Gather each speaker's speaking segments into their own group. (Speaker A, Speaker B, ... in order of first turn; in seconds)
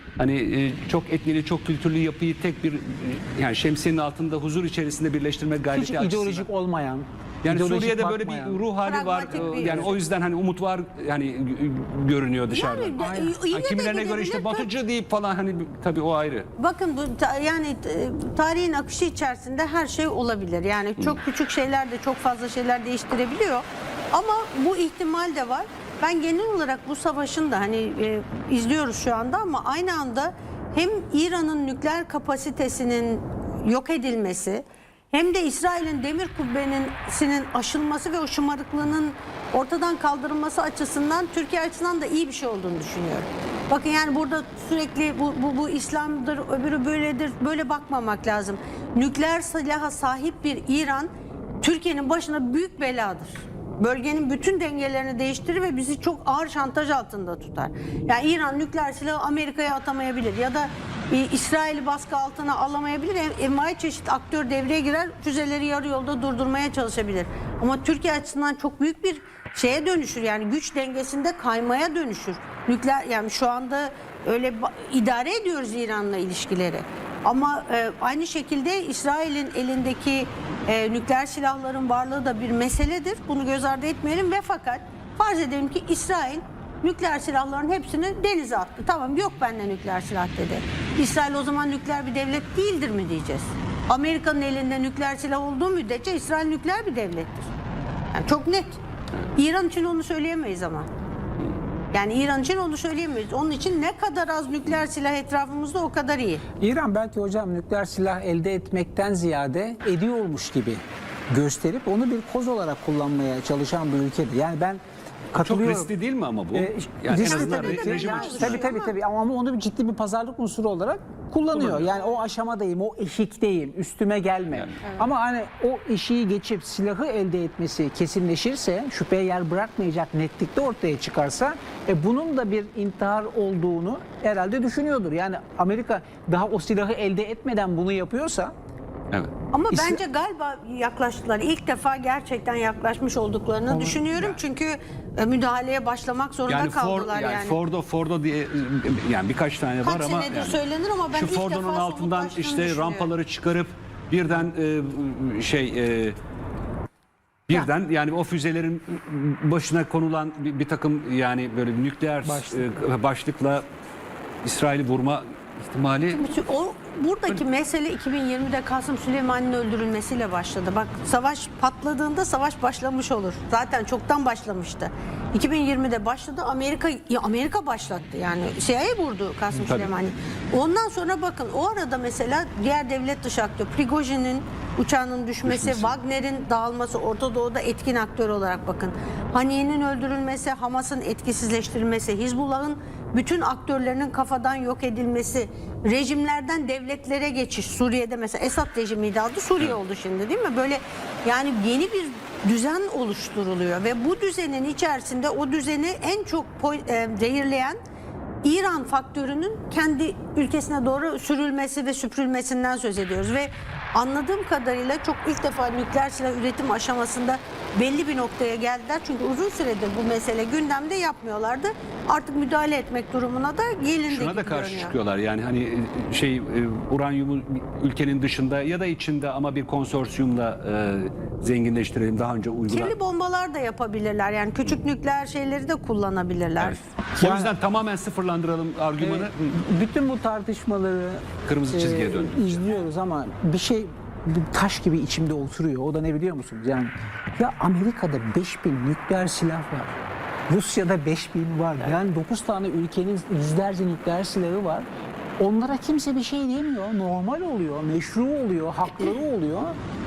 Speaker A: 0.2-6.5, 7.4-16.5, 115.4-118.8, 121.5-121.9, 146.5-150.6, 151.1-156.2, 157.5-163.7, 164.4-166.2, 179.5-179.9, 185.4-185.9, 224.1-232.9, 236.6-239.5, 241.4-242.8
Speaker B: 5.7-8.6, 9.3-9.9, 13.0-13.4, 106.6-114.8, 115.3-115.9, 116.5-138.5, 143.7-144.4, 162.2-162.8, 237.2-237.6, 239.0-250.0, 250.5-254.9, 255.4-259.8
Speaker C: 8.8-9.9, 12.5-14.7, 16.6-51.1, 51.6-97.5, 98.1-98.8, 99.4-100.9, 101.9-106.4, 117.1-119.0, 124.8-125.1, 139.5-147.6, 149.8-153.1, 166.1-207.8, 208.4-224.9, 232.7-236.8